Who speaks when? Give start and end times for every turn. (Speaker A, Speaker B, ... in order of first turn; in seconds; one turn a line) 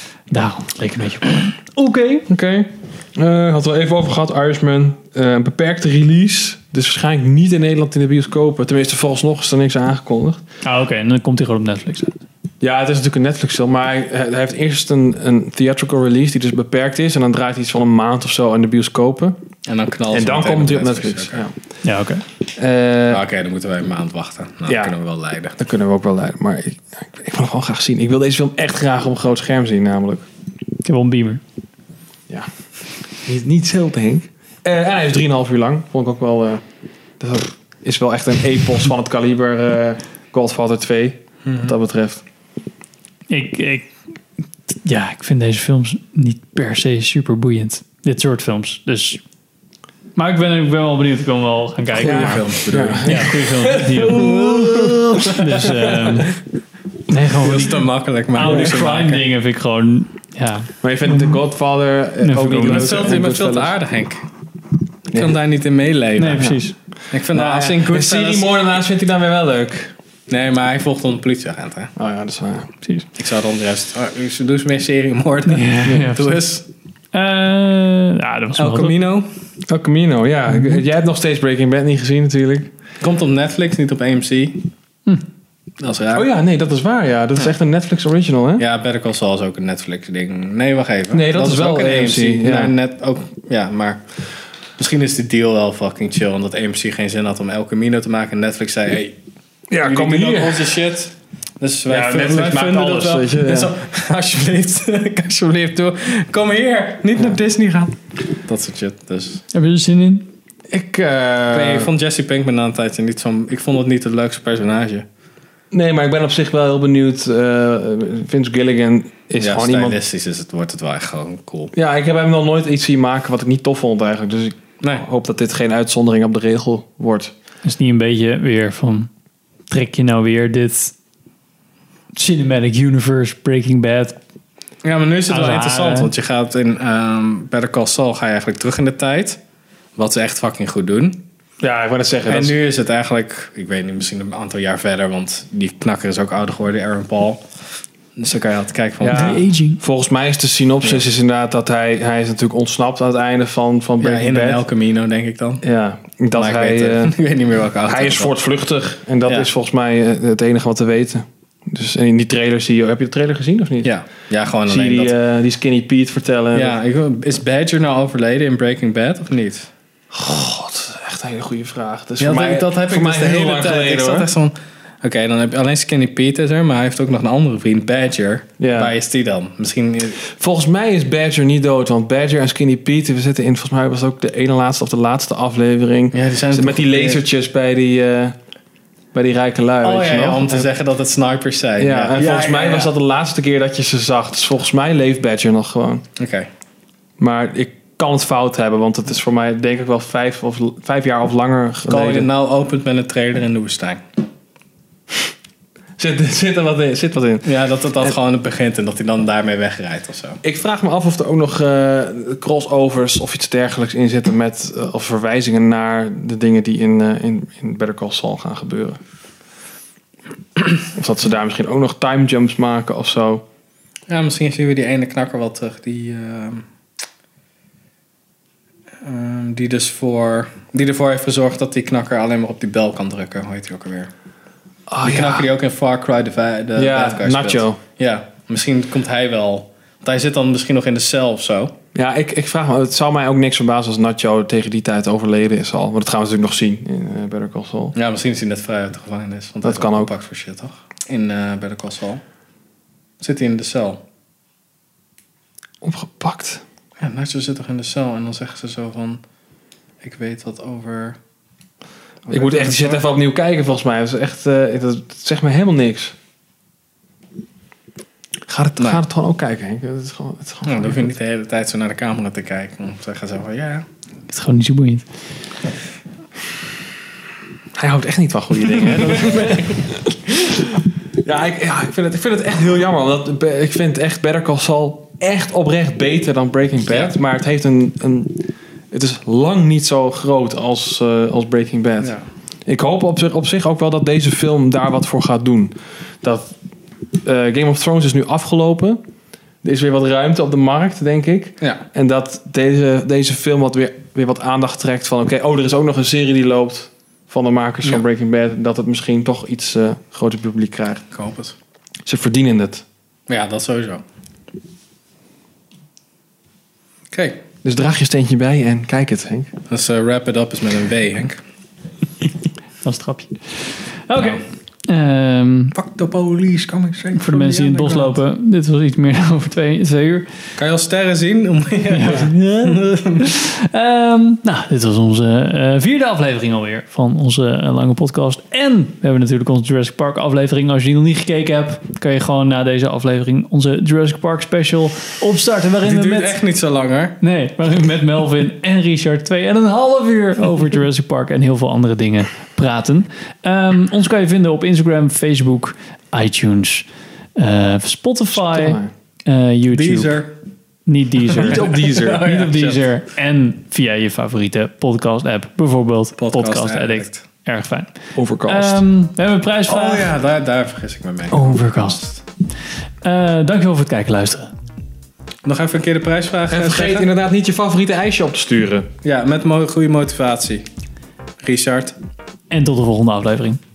Speaker A: 0.3-2.3
Speaker B: 2.3-10.4
Speaker A: 10.6-12.2
Speaker B: 12.6-19.4
Speaker C: 19.7-21.5
Speaker B: 20.1-21.5
Speaker A: 21.8-22.2
Speaker B: 22.6-23.2
Speaker C: 23.1-25.6
Speaker B: 24.6-24.9
Speaker B: 25.6-30.2
Speaker A: 30.8-31.4
Speaker B: 32.3-36.6
Speaker B: 37.2-42.2
Speaker C: 41.5-41.7
Speaker A: 43.3-44.1
Speaker A: 44.8-49.2
Speaker A: 50.1-56.4
Speaker C: 51.9-55.3
Speaker B: 52.0-55.7
Speaker A: 57.1-61.3
Speaker C: 57.4-59.2
Speaker B: 58.4-58.8
Speaker B: 60.8-63.7
Speaker A: 62.2-63.0
Speaker C: 62.6-64.2
Speaker B: 65.1-65.4
Speaker C: 65.1-66.6
Speaker A: 66.2-66.8
Speaker C: 67.1-68.5
Speaker B: 67.1-69.9
Speaker C: 70.3-71.9
Speaker B: 72.0-72.7
Speaker C: 73.2-76.6
Speaker A: 75.5-76.4
Speaker A: 77.1-78.9
Speaker C: 78.6-79.3
Speaker B: 79.7-82.7
Speaker A: 80.5-80.8
Speaker C: 83.0-84.7
Speaker C: 85.8-86.2
Speaker B: 86.1-88.6
Speaker C: 88.6-99.2
Speaker B: 91.1-92.7
Speaker B: 99.7-100.7
Speaker C: 99.8-109.4
Speaker B: 101.9-103.7
Speaker A: 109.5-110.3
Speaker B: 110.7-111.9
Speaker C: 111.5-115.0
Speaker B: 115.7-120.0
Speaker C: 119.4-121.7
Speaker B: 121.7-127.3
Speaker A: 127.6-129.1
Speaker A: 129.7-130.9
Speaker A: 132.2-134.2
Speaker C: 134.8-139.4
Speaker A: 135.3-136.1
Speaker C: 139.9-141.2
Speaker B: 141.6-142.5
Speaker C: 142.3-147.4
Speaker C: 148.2-149.4
Speaker B: 149.0-154.6
Speaker A: 149.1-149.8
Speaker C: 154.0-155.6
Speaker B: 155.6-157.2
Speaker C: 156.3-158.3
Speaker B: 157.8-163.9
Speaker C: 163.8-165.1
Speaker B: 164.7-166.8
Speaker C: 166.5-169.7
Speaker B: 170.1-174.3
Speaker C: 172.2-180.2
Speaker B: 178.6-178.9
Speaker B: 180.2-188.4
Speaker C: 186.1-187.2
Speaker B: 189.1-190.7
Speaker C: 189.8-192.9
Speaker B: 191.8-196.0
Speaker C: 196.2-196.5
Speaker B: 197.2-202.3
Speaker C: 201.9-204.0
Speaker B: 206.0-207.5
Speaker C: 207.4-210.4
Speaker B: 210.4-219.0
Speaker B: 220.9-223.4
Speaker C: 224.1-226.6
Speaker C: 229.0-234.1
Speaker B: 234.9-235.5
Speaker C: 235.0-241.7
Speaker B: 236.8-237.8
Speaker B: 241.9-247.9
Speaker C: 247.9-252.2
Speaker B: 249.6-250.1
Speaker C: 253.2-254.0
Speaker B: 255.8-256.6
Speaker C: 257.0-259.2
Speaker C: 260.0-261.2
Speaker C: 262.2-263.1
Speaker B: 262.3-266.1
Speaker B: 268.5-271.1
Speaker C: 270.6-273.8
Speaker A: 274.3-275.1
Speaker B: 277.7-296.5
Speaker C: 279.0-279.7
Speaker C: 286.8-287.1
Speaker B: 297.2-299.0
Speaker B: 299.6-311.0
Speaker C: 311.1-311.6
Speaker B: 312.1-312.8
Speaker C: 313.3-314.0
Speaker C: 317.1-317.4
Speaker B: 317.6-319.5
Speaker C: 319.7-321.4
Speaker A: 322.8-325.7
Speaker C: 325.7-328.2
Speaker A: 327.1-330.3
Speaker C: 330.6-333.2
Speaker A: 331.9-346.4
Speaker C: 345.8-347.2
Speaker A: 347.2-360.3
Speaker B: 358.4-358.9
Speaker C: 359.7-360.4
Speaker A: 360.8-370.1
Speaker B: 361.3-362.2
Speaker C: 361.4-362.8
Speaker C: 366.2-367.2
Speaker B: 368.1-368.8
Speaker C: 369.7-372.1
Speaker A: 371.3-374.5
Speaker C: 375.4-377.1
Speaker B: 376.5-378.9
Speaker C: 379.0-380.6
Speaker C: 381.4-382.0
Speaker A: 382.5-383.6